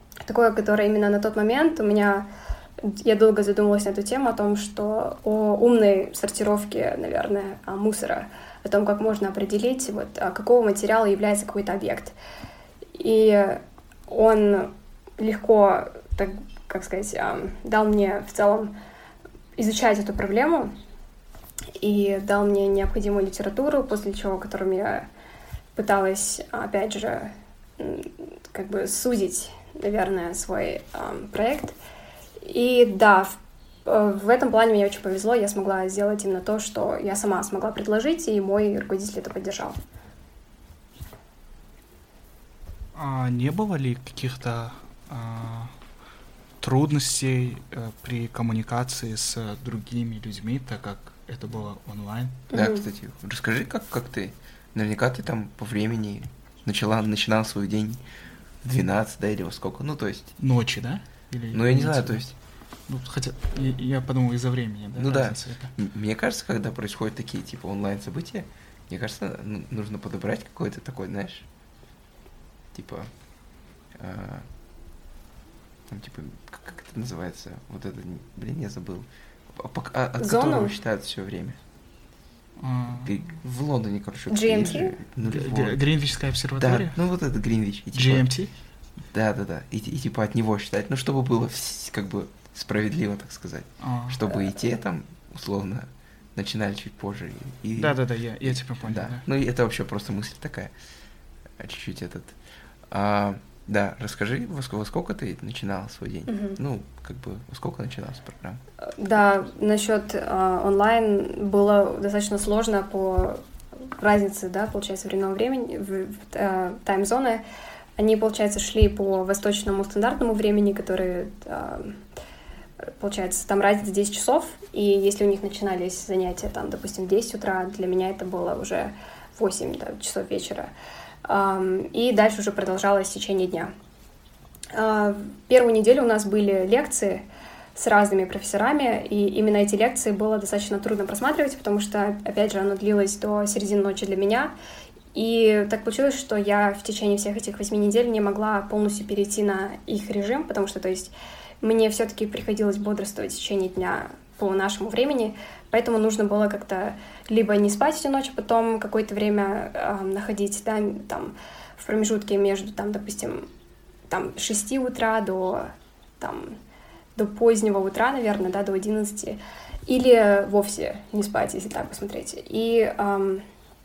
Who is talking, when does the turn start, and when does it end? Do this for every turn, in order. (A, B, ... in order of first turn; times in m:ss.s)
0:00.2-0:02.3 A
0:02.8-0:12.1 A
0:12.9-0:18.7 A
0:19.6-0:20.7 A
0:21.8-0:25.1 A
0:25.7-0:31.8 A
0:32.4-0:39.8 A
0:42.9-0:45.8 B
0:46.6-0:52.4 B
0:52.5-0:52.8 A
0:52.5-0:58.0 C
0:58.6-1:00.3 C
1:00.4-1:02.3 B
1:01.5-1:02.3 C
1:02.9-1:05.7 B
1:05.0-1:11.4 C
1:12.7-1:13.1 C
1:13.9-1:14.5 C
1:15.9-1:21.6 C
1:20.2-1:20.7 A
1:22.6-1:23.3 B
1:23.0-1:25.8 C
1:24.3-1:25.0 A
1:25.2-1:27.0 B
1:26.6-1:28.3 C
1:27.9-1:28.5 B
1:29.1-1:40.7 C
1:33.8-1:34.2 B
1:37.8-1:39.2 B
1:41.6-1:42.4 C
1:42.9-1:48.6 C
1:46.3-1:46.6 A
1:48.8-1:53.4 A
1:54.0-1:57.4 A
1:58.0-2:02.0 A
2:02.8-2:10.7 A
2:11.2-2:13.7 A
2:14.7-2:24.5 A
2:25.1-2:43.5 A
2:44.1-2:46.6 A
2:47.1-2:53.4 A